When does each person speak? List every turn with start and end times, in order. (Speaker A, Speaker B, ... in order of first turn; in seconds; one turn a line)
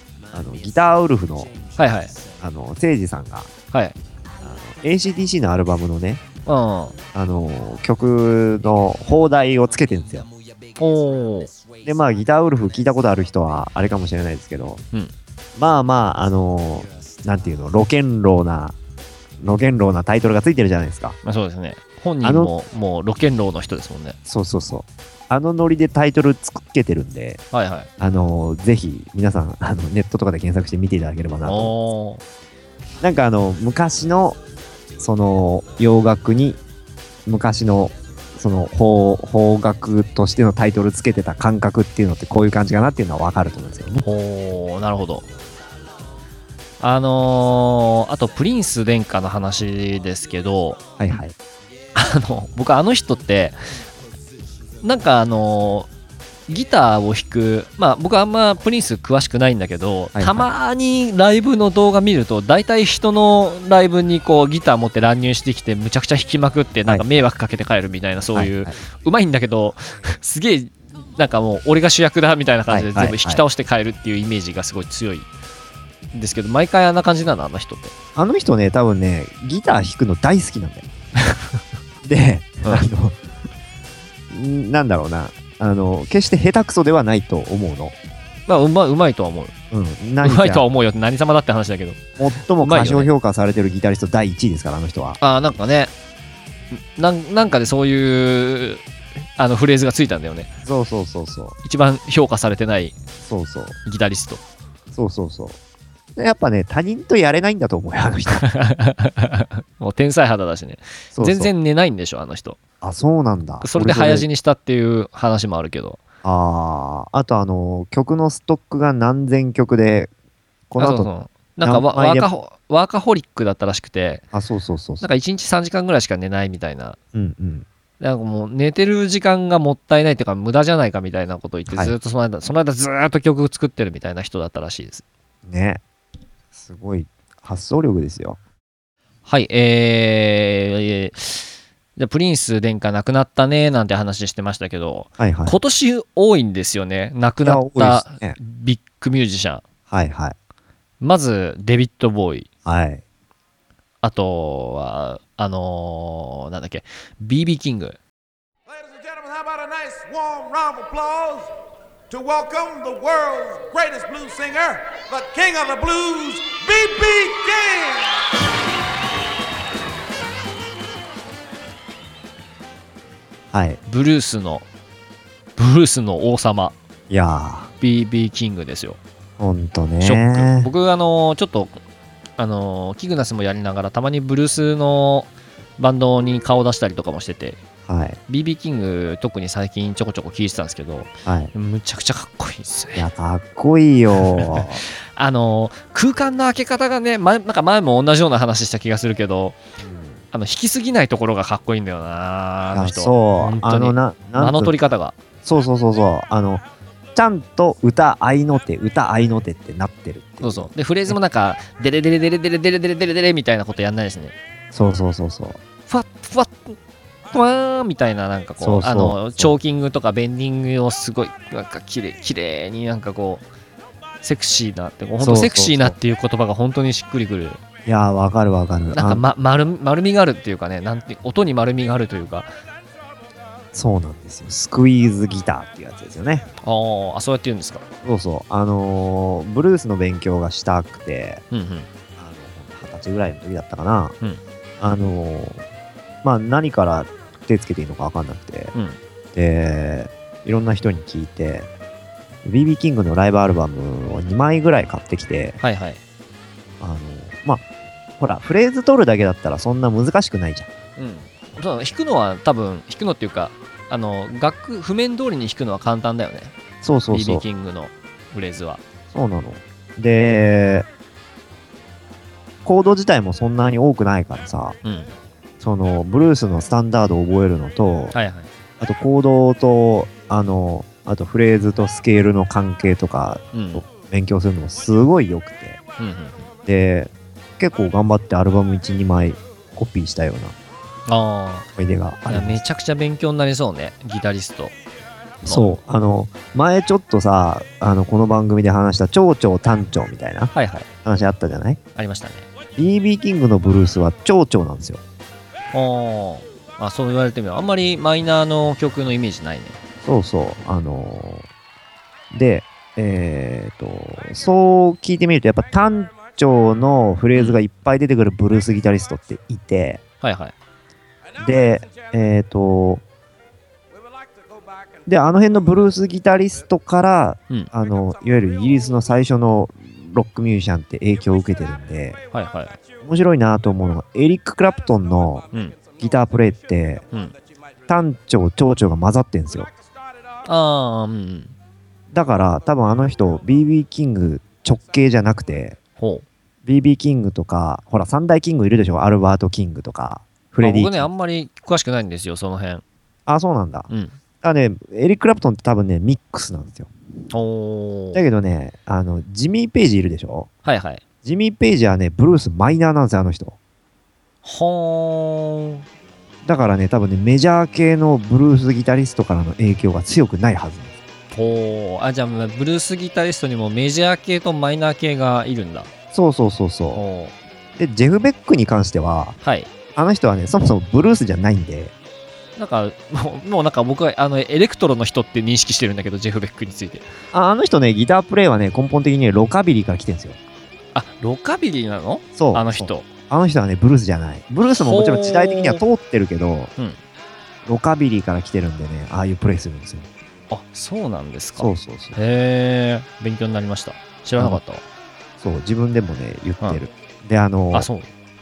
Speaker A: 0.3-1.5
Speaker B: 1.8-2.1
Speaker A: 2.4-3.5
Speaker A: 4.4-6.2
Speaker B: 6.5-7.0
Speaker A: 7.1-10.3
Speaker B: 10.8-11.5
Speaker A: 11.8-14.8
Speaker A: 15.6-18.7
Speaker A: 19.4-21.2
Speaker B: 21.2-24.2
Speaker A: 22.2-22.5
Speaker A: 24.3-27.4
Speaker B: 27.5-27.9
Speaker A: 28.0-31.7
Speaker B: 31.4-32.2
Speaker A: 33.0-34.4
Speaker A: 35.0-36.6
Speaker A: 37.2-44.0
Speaker B: 44.0-45.2
Speaker B: 46.8-50.8
Speaker A: 51.0-51.3
Speaker B: 51.9-53.6
Speaker B: 54.8-55.9
Speaker B: 56.5-75.3
Speaker A: 60.1-60.5
Speaker A: 68.3-68.7
Speaker A: 72.7-73.4
Speaker B: 76.1-77.9
Speaker A: 78.2-80.9
Speaker B: 81.3-81.6
Speaker A: 82.0-83.2
Speaker A: 84.3-87.9
Speaker B: 88.5-89.5
Speaker A: 89.7-90.7
Speaker B: 90.2-92.0
Speaker A: 92.2-95.2
Speaker B: 92.6-93.1
Speaker B: 95.2-95.9
Speaker B: 96.7-98.8
Speaker B: 99.4-100.5
Speaker A: 100.6-101.5
Speaker B: 101.6-103.0
Speaker A: 103.2-103.8
Speaker B: 103.8-104.4
Speaker A: 104.9-105.6
Speaker A: 106.2-108.4
Speaker B: 108.3-112.6
Speaker A: 111.1-111.5
Speaker A: 112.8-114.3
Speaker B: 113.6-116.0
Speaker A: 116.2-120.1
Speaker A: 120.7-121.1
Speaker B: 120.8-124.2
Speaker A: 121.6-122.3
Speaker A: 124.3-125.1
Speaker B: 125.0-127.0
Speaker A: 127.1-127.7
Speaker B: 128.0-135.0
Speaker A: 131.7-131.9
Speaker A: 135.5-135.8
Speaker A: 136.5-138.4
Speaker B: 139.2-149.6
Speaker A: 145.2-145.6
Speaker A: 147.4-148.4
Speaker A: 149.9-150.3
Speaker B: 151.0-152.5
Speaker A: 152.6-153.0
Speaker B: 154.0-158.0
Speaker C: 158.7-161.5
Speaker C: 162.1-168.1
Speaker A: 173.5-173.8
Speaker B: 173.9-174.7
Speaker B: 175.6-176.8
Speaker A: 177.1-177.7
Speaker B: 177.8-179.0
Speaker A: 179.4-180.7
Speaker B: 180.0-181.8
Speaker B: 182.4-187.6
Speaker A: 187.9-188.2
Speaker B: 188.3-193.1
Speaker A: 191.2-191.5
Speaker A: 192.9-194.8
Speaker B: 194.3-199.6
Speaker A: 199.8-200.2
Speaker B: 200.3-205.2
Speaker A: 202.7-204.9
Speaker A: 205.4-206.6
Speaker A: 207.1-211.1
Speaker B: 210.4-214.3
Speaker A: 214.7-215.6
Speaker B: 215.9-216.8
Speaker B: 217.3-223.4
Speaker A: 218.6-219.5
Speaker B: 224.2-227.6
Speaker A: 225.2-225.9
Speaker A: 227.8-229.2
Speaker B: 228.9-232.5
Speaker A: 233.7-236.5
Speaker B: 236.6-237.8
Speaker A: 238.0-241.4
Speaker B: 241.5-241.9
Speaker A: 242.2-244.2
Speaker A: 244.8-245.6
Speaker A: 246.2-248.7
Speaker B: 248.7-249.0
Speaker A: 249.3-251.7
Speaker A: 252.4-255.6
Speaker B: 255.6-256.0
Speaker A: 256.8-257.6
Speaker A: 258.2-260.7
Speaker B: 261.0-266.5
Speaker A: 266.8-267.4
Speaker B: 267.1-268.8
Speaker A: 269.1-270.9
Speaker A: 272.6-274.8
Speaker B: 274.8-275.1
Speaker A: 275.6-278.1
Speaker B: 278.1-278.5
Speaker A: 278.8-285.8
Speaker B: 283.5-283.8
Speaker B: 286.0-286.5
Speaker A: 286.6-290.5
Speaker B: 291.1-291.7
Speaker A: 291.8-292.6
Speaker B: 292.3-294.7
Speaker A: 295.4-300.5
Speaker B: 295.4-295.8
Speaker B: 300.5-300.9
Speaker A: 301.0-301.8
Speaker B: 301.9-302.5
Speaker A: 302.8-305.0
Speaker B: 305.7-309.8
Speaker A: 310.0-311.5
Speaker A: 312.3-320.0
Speaker B: 317.3-317.6
Speaker B: 320.2-320.5
Speaker A: 321.4-323.0
Speaker A: 325.1-332.2
Speaker B: 332.3-332.8
Speaker A: 333.0-335.4
Speaker B: 335.5-335.8
Speaker A: 336.0-337.0
Speaker A: 337.9-339.7
Speaker B: 340.4-341.5
Speaker A: 342.1-345.8
Speaker B: 346.0-346.2
Speaker A: 346.6-351.1
Speaker B: 350.6-352.8
Speaker A: 353.3-353.9
Speaker B: 353.9-354.1
Speaker A: 354.4-356.9
Speaker B: 357.3-358.2
Speaker A: 358.1-360.5
Speaker B: 360.6-361.0
Speaker A: 361.2-363.6
Speaker B: 364.4-365.8
Speaker A: 366.4-370.9
Speaker B: 371.3-375.9
Speaker A: 376.1-377.0
Speaker B: 376.9-377.4
Speaker A: 377.8-379.4
Speaker B: 379.4-379.7
Speaker A: 379.9-381.9
Speaker B: 382.6-387.1
Speaker A: 387.3-390.4
Speaker B: 390.9-393.1
Speaker A: 392.4-396.7
Speaker B: 394.7-395.8
Speaker A: 397.6-400.1
Speaker B: 400.5-404.8
Speaker A: 401.6-402.2
Speaker A: 405.4-407.9
Speaker B: 407.7-408.1